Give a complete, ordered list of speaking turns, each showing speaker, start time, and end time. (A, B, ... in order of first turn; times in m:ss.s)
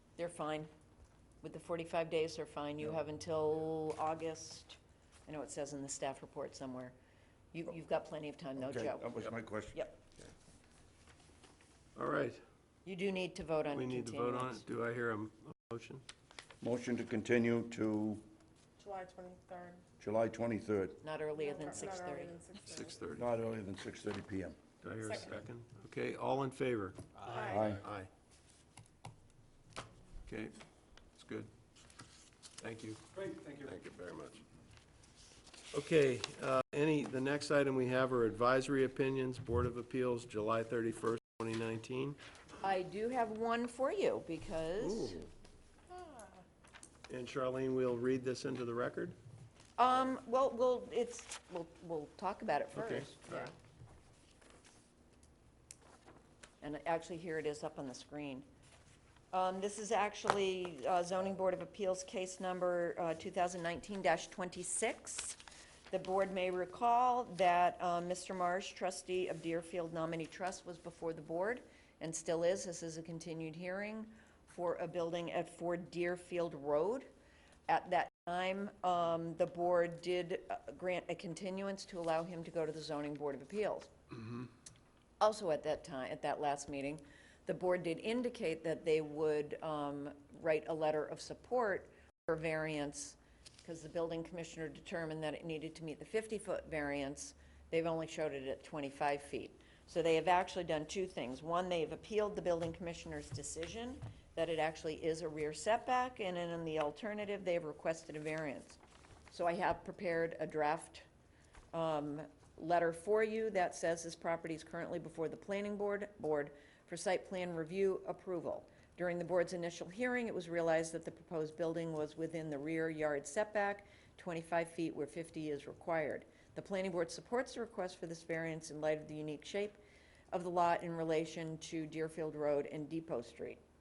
0:00.2-0:00.7 A
0:01.4-0:07.0 A
0:07.5-0:10.0 A
0:08.6-0:09.8 B
0:12.0-0:12.4 C
0:12.8-0:14.6 A
0:13.7-0:16.0 C
0:16.6-0:18.2 B
0:18.8-0:19.8 D
0:20.0-0:21.0 B
0:21.0-0:22.4 A
0:22.1-0:22.7 D
0:22.6-0:23.3 C
0:23.2-0:24.6 B
0:24.8-0:28.1 C
0:27.3-0:27.6 D
0:27.4-0:27.8 B
0:30.3-0:30.6 C
0:31.2-0:31.5 C
0:32.6-0:34.4 C
0:35.7-0:42.2 C
0:42.6-0:45.2 A
0:44.8-0:45.3 C
0:47.1-0:49.2 C
0:49.8-0:53.5 A
0:52.8-0:53.5 C
0:56.6-0:58.5 A
0:59.3-1:05.4 A
1:05.9-1:17.1 A
1:17.7-1:23.9 A
1:25.2-1:48.8 A
1:49.3-1:51.0 A
1:51.7-2:09.8 A
2:10.3-2:13.6 A